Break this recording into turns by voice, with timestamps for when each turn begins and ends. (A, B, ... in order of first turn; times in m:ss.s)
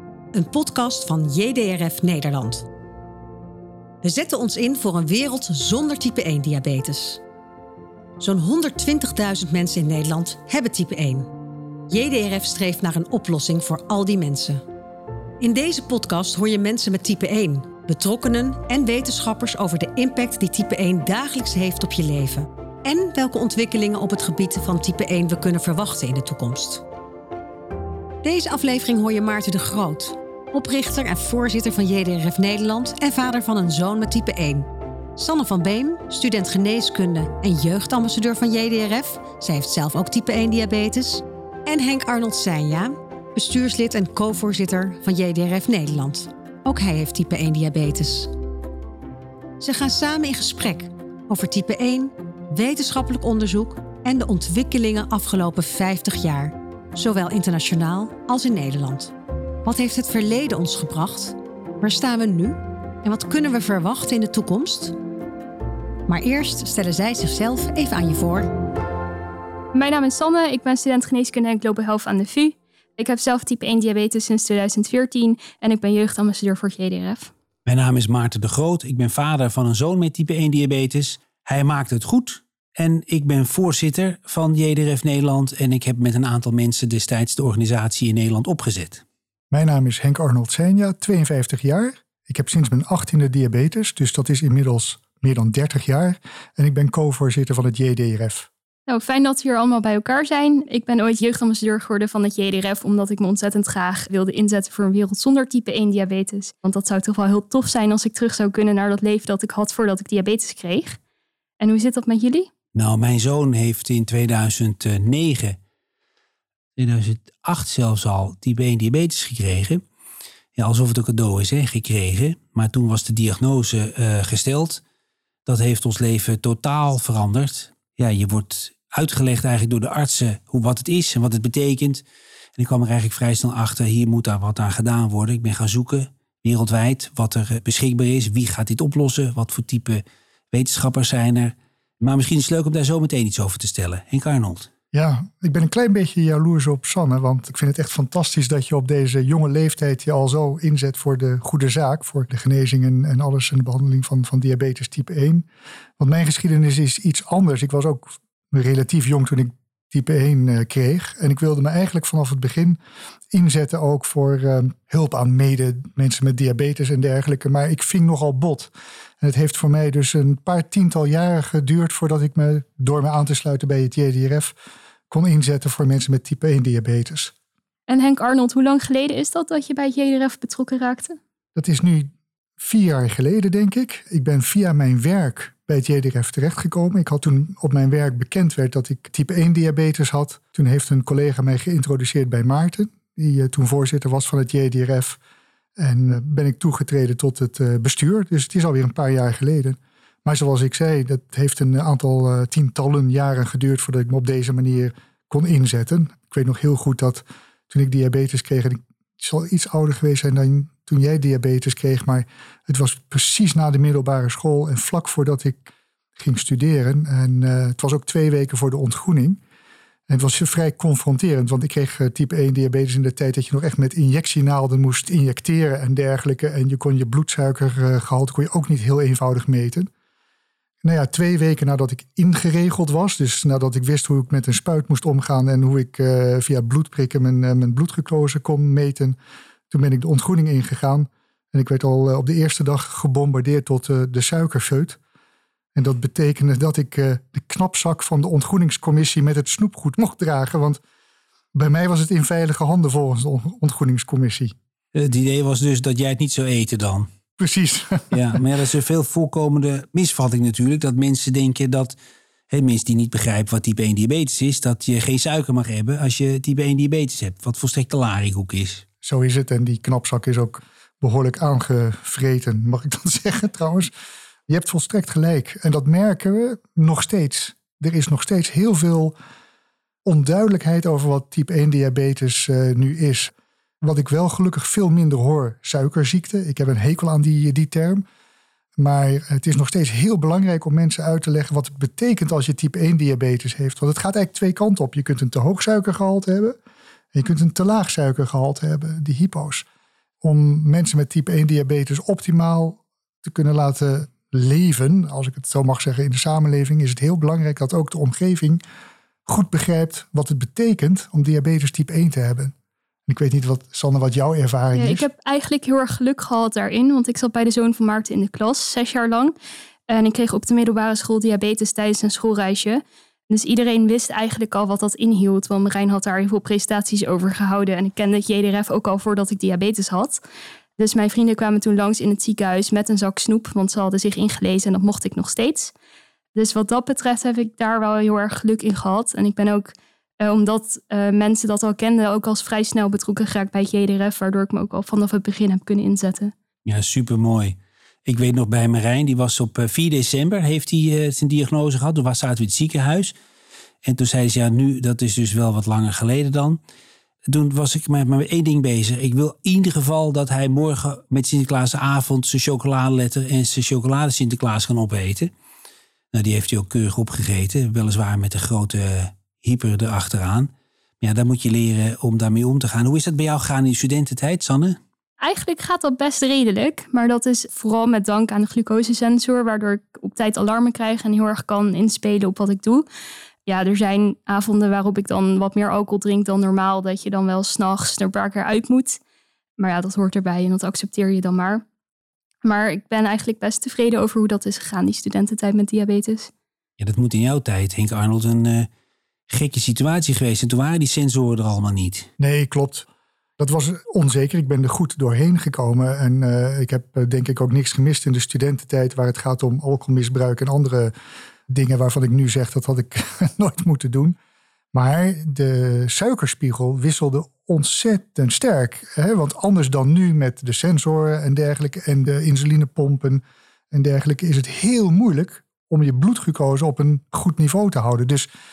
0:00.3-0:02.7 A
0:04.0-0:07.2 A
0:08.2-0:11.3 A
0:11.9-0:14.6 A
0:15.4-0:26.8 A
0:28.2-0:48.3 A
0:49.6-1:05.0 A
1:06.1-1:08.5 A
1:09.7-1:17.3 B
1:17.6-1:29.0 C
1:29.5-1:38.5 D
1:38.9-1:51.0 B
1:51.6-1:52.5 B
1:52.7-1:55.6 C
1:56.8-1:59.8 C
2:00.6-2:04.8 C
2:05.4-2:12.0 C
2:12.6-2:24.7 C
2:24.9-2:35.4 D
2:36.0-2:42.8 D
2:43.3-2:54.5 D
2:55.1-2:57.3 D
2:57.9-3:01.2 B
3:01.5-3:15.2 D
3:15.8-3:39.4 D
3:40.1-3:49.9 D
3:50.8-3:59.2 D
3:59.7-4:05.0 D
4:05.7-4:10.8 D
4:11.5-4:14.5 D
4:14.9-4:17.1 C
4:17.4-4:18.4 D
4:18.1-4:22.0 C
4:22.5-4:28.8 C
4:29.0-4:33.9 D
4:34.5-4:39.1 D
4:40.0-4:48.0 D
4:48.8-4:56.6 D
4:57.1-4:59.6 D
5:00.2-5:08.6 D
5:09.2-5:12.5 D
5:13.1-5:15.1 D
5:14.7-5:19.3 B
5:19.9-5:30.2 B
5:30.8-5:35.7 B
5:36.3-5:46.3 B
5:46.6-5:53.1 C
5:53.8-5:56.6 C
5:57.3-6:05.3 C
6:06.1-6:10.5 C
6:11.0-6:14.8 C
6:15.2-6:22.8 B
6:23.4-6:29.0 B
6:29.6-6:31.6 B
6:32.4-6:36.3 B
6:36.8-6:38.7 C
6:39.3-6:42.1 C
6:42.2-6:42.9 D
6:43.4-6:50.9 D
6:51.5-6:54.2 D
6:54.7-7:08.3 D